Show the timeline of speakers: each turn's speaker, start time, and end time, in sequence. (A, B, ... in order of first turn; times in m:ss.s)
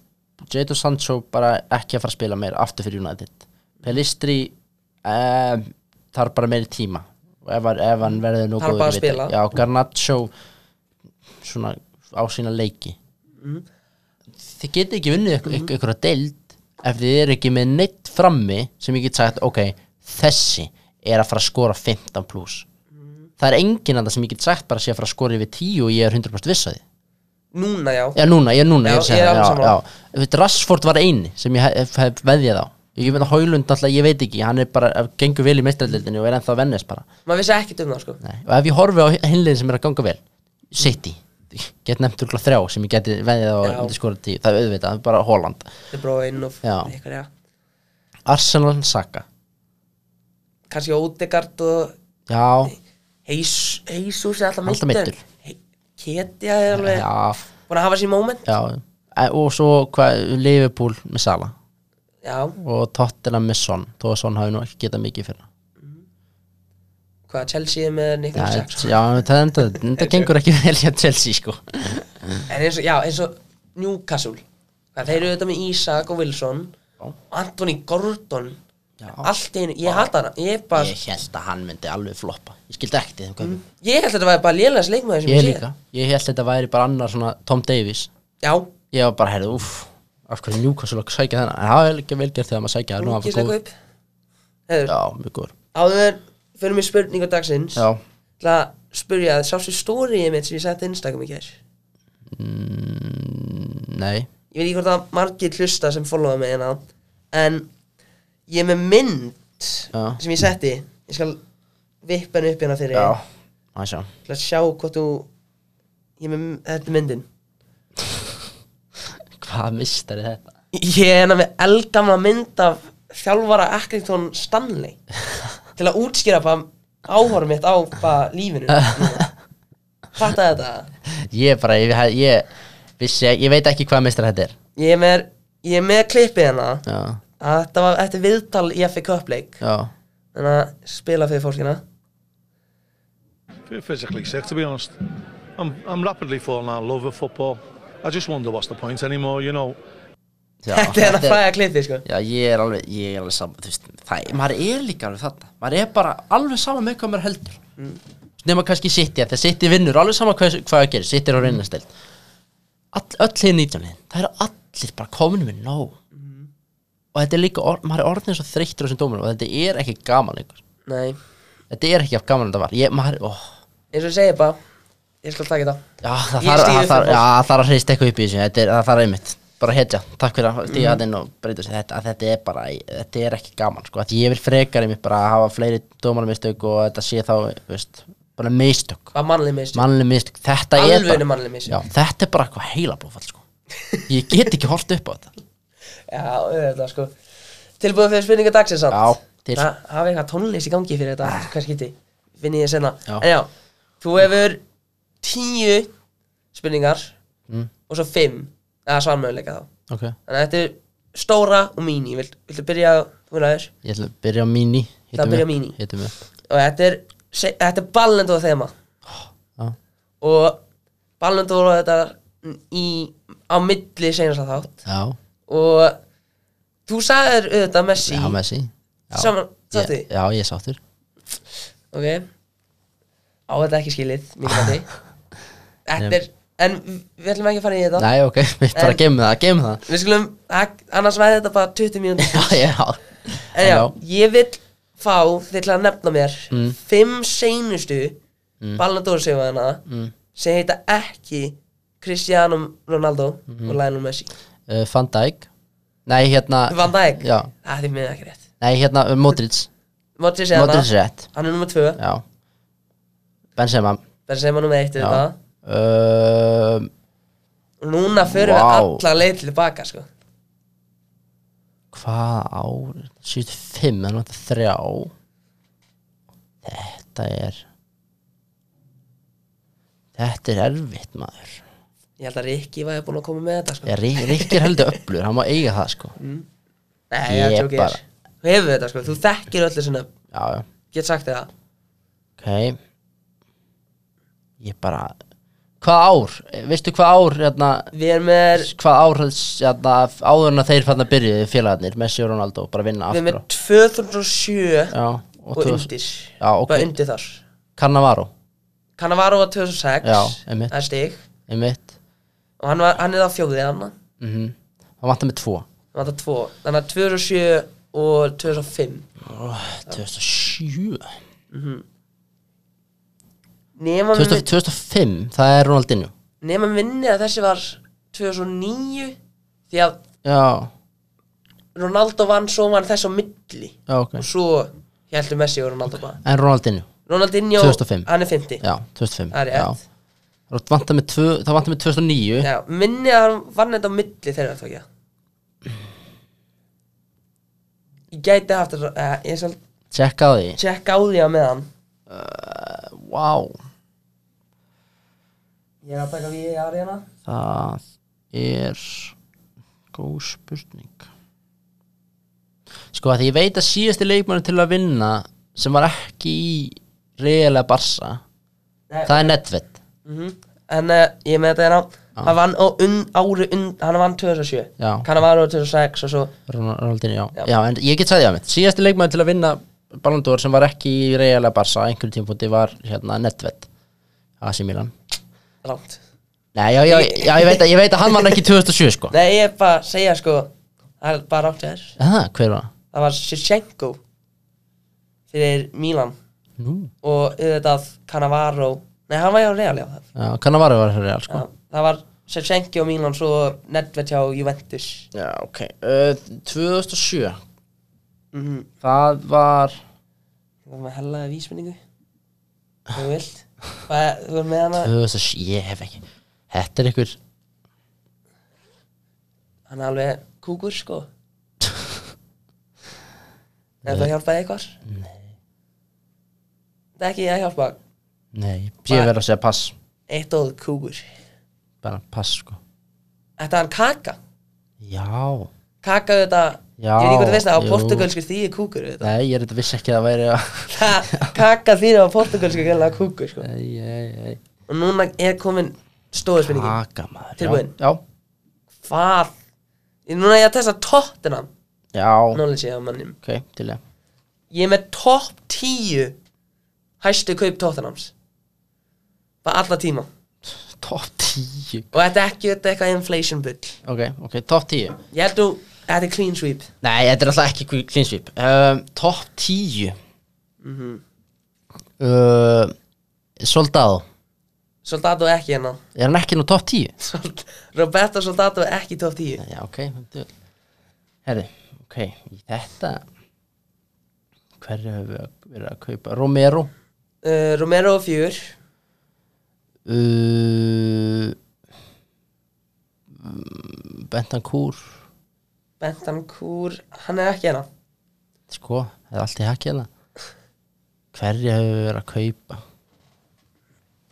0:00.4-0:10.3 A
0:08.6-0:09.4 B
0:11.4-0:13.0 A
0:13.4-0:13.6 B
0:14.4-0:22.7 A
0:22.9-0:23.3 B
0:23.4-0:26.8 A
0:27.5-0:28.2 B
0:28.2-0:37.0 A
0:28.8-0:29.8 B
0:33.0-0:33.3 B
0:37.2-0:38.2 B
0:38.2-0:45.7 A
0:43.6-0:43.9 B
0:45.9-0:47.3 B
0:46.6-0:46.9 A
0:48.2-0:49.2 A
0:50.7-0:51.9 B
0:52.3-0:52.7 A
0:53.2-0:57.1 B
0:54.6-0:55.2 A
0:56.7-0:57.4 A
0:57.7-0:58.5 B
0:58.4-1:01.5 A
1:02.2-1:02.6 B
1:02.6-1:05.4 A
1:07.3-1:09.0 B
1:08.3-1:12.4 A
1:09.9-1:10.3 B
1:12.5-1:14.4 B
1:14.9-1:16.8 B
1:17.3-1:18.6 B
1:19.0-1:19.3 A
1:19.2-1:20.9 B
1:19.8-1:20.1 A
1:20.7-1:23.6 A
1:23.4-1:25.6 B
1:25.2-1:28.1 A
1:28.4-1:28.7 B
1:28.9-1:33.6 A
1:33.0-1:33.7 B
1:34.7-1:34.9 B
1:34.9-1:35.5 A
1:35.7-1:37.9 B
1:37.8-1:38.0 A
1:38.4-1:41.6 B
1:42.3-1:44.3 A
1:44.5-1:47.7 B
1:48.5-1:51.4 B
1:49.9-1:50.2 A
1:52.0-1:53.1 B
1:52.9-1:53.2 A
1:53.7-1:54.1 A
1:54.3-1:55.3 B
1:56.2-1:57.2 B
1:59.3-2:00.4 A
2:00.7-2:05.0 B
2:05.8-2:09.3 B
2:08.7-2:09.3 A
2:10.1-2:10.9 B
2:11.1-2:12.5 A
2:13.0-2:14.5 A
2:14.8-2:16.8 B
2:16.8-2:17.2 A
2:17.4-2:19.6 B
2:19.6-2:19.9 A
2:20.3-2:21.8 B
2:23.7-2:25.0 C
2:25.6-2:29.8 C
2:30.6-2:31.4 A
2:30.7-2:32.0 B
2:32.0-2:37.6 A
2:38.4-2:41.9 A
2:42.9-2:46.0 A
2:46.1-2:46.5 B
2:47.1-2:50.6 A
2:50.8-2:51.2 B
2:51.7-2:53.5 A
2:53.9-2:54.6 B
2:55.2-2:55.8 B
2:56.0-3:09.2 A
2:56.4-2:57.2 B
3:00.7-3:01.0 B
3:09.1-3:09.8 B
3:09.7-3:13.4 A
3:10.7-3:11.8 B
3:14.1-3:15.3 A
3:16.1-3:17.1 B
3:17.8-3:23.5 B
3:18.9-3:19.7 A
3:24.0-3:24.6 B
3:25.2-3:25.9 B
3:26.5-3:27.1 B
3:27.9-3:29.7 B
3:29.9-3:30.2 A
3:30.3-3:33.7 B
3:33.8-3:36.1 A
3:35.1-3:35.8 B
3:36.5-3:38.7 B
3:39.1-3:39.8 A
3:40.2-3:40.6 B
3:41.2-3:44.8 B
3:44.8-3:45.2 A
3:45.5-3:46.0 B
3:46.9-3:48.4 B
3:48.0-3:50.8 A
3:49.1-3:50.1 B
3:51.9-3:52.2 B
3:53.5-3:54.9 B
3:55.8-3:58.1 B
3:58.0-3:59.8 A
3:58.7-3:59.0 B
3:59.8-4:02.6 B
4:02.2-4:04.0 A
4:03.5-4:08.2 B
4:06.5-4:06.8 A
4:08.8-4:09.8 B
4:09.8-4:10.1 A
4:10.3-4:14.3 B
4:13.5-4:13.8 A
4:14.7-4:15.5 A
4:16.0-4:17.5 A
4:16.7-4:18.4 B
4:18.6-4:19.7 A
4:20.2-4:22.0 B
4:20.5-4:21.3 A
4:22.0-4:22.2 A
4:23.6-4:24.0 A
4:24.3-4:25.4 B
4:25.0-4:26.9 A
4:27.8-4:30.1 B
4:28.2-4:29.0 A
4:31.9-4:35.1 A
4:36.6-4:37.6 A
4:40.1-4:41.6 A
4:42.2-4:45.0 B
4:43.8-4:46.1 A
4:46.2-4:46.4 B
4:47.1-4:50.1 B
4:47.3-4:48.0 A
4:50.3-4:50.7 A
4:50.9-4:51.5 B
4:52.4-4:52.8 A
4:54.6-4:55.1 A
4:55.8-4:57.9 A
4:57.9-4:58.7 B
4:58.6-5:03.4 A
5:03.1-5:04.9 B
5:04.9-5:06.9 A
5:05.5-5:07.4 B
5:07.8-5:08.3 A
5:09.0-5:11.2 B
5:10.0-5:10.7 A
5:11.5-5:11.9 A
5:12.6-5:13.9 B
5:14.2-5:15.6 A
5:15.9-5:19.1 B
5:19.2-5:21.2 A
5:21.5-5:21.8 B
5:23.8-5:24.5 B
5:24.1-5:26.1 A
5:26.4-5:29.2 B
5:29.7-5:30.0 B
5:30.2-5:30.7 A
5:31.7-5:36.2 B
5:33.9-5:34.2 A
5:36.2-5:36.9 A
5:37.1-5:38.6 B
5:37.6-5:38.1 A
5:38.6-5:39.8 A
5:39.3-5:39.8 B
5:40.5-5:42.5 A
5:42.4-5:44.8 B
5:48.1-5:49.6 B
5:49.9-5:50.6 A
5:50.6-5:51.7 B
5:52.1-5:53.6 A
5:55.8-5:57.1 B
5:57.2-5:59.1 A
5:59.9-6:01.1 A
6:02.9-6:08.2 A
6:08.9-6:09.3 B
6:09.0-6:09.8 A
6:10.0-6:16.3 B
6:14.8-6:15.1 A
6:16.5-6:23.7 A
6:24.4-6:24.9 A
6:25.6-6:26.0 B
6:26.5-6:29.1 A
6:26.9-6:28.4 B
6:29.1-6:32.0 B
6:32.0-6:32.7 A
6:32.9-6:34.0 B
6:35.3-6:36.2 B
6:36.6-6:36.9 A
6:37.0-6:40.0 B
6:40.2-6:41.4 A
6:41.3-6:45.1 B
6:45.1-6:47.4 A
6:48.3-6:48.7 B
6:48.8-6:49.8 A
6:50.6-6:51.8 B
6:52.9-6:54.9 B
6:54.8-6:57.2 A
6:59.7-7:01.1 B
7:01.6-7:01.9 A
7:03.8-7:04.1 A
7:03.8-7:04.8 B
7:04.8-7:05.2 A
7:07.0-7:07.8 B
7:08.3-7:09.7 A
7:10.1-7:11.1 B
7:11.8-7:12.6 A
7:13.4-7:14.2 B
7:14.8-7:15.5 A
7:15.8-7:19.1 B
7:16.8-7:18.1 A
7:19.0-7:21.4 A
7:20.7-7:23.5 B
7:23.4-7:24.4 A
7:24.7-7:26.8 B
7:26.4-7:28.0 A
7:27.4-7:27.7 B
7:28.8-7:29.3 B
7:30.0-7:31.5 B
7:31.9-7:32.4 A
7:32.3-7:33.2 B
7:33.2-7:33.8 A
7:34.5-7:36.2 B
7:37.0-7:38.1 B
7:39.4-7:40.1 B
7:40.5-7:41.9 A
7:41.9-7:43.8 B
7:43.8-7:45.0 A
7:45.1-7:46.7 B
7:46.8-7:50.0 A
7:50.6-7:51.0 B
7:52.0-7:52.7 A
7:53.4-7:54.0 A
7:54.8-7:55.8 B
7:55.9-7:56.9 A
7:57.0-7:59.4 B
7:59.4-8:00.3 A
8:01.2-8:03.0 A
8:04.6-8:06.7 A
8:07.2-8:08.5 B
8:09.8-8:11.4 A
8:13.2-8:14.9 A
8:15.8-8:17.7 B
8:18.5-8:19.9 A
8:21.1-8:22.6 A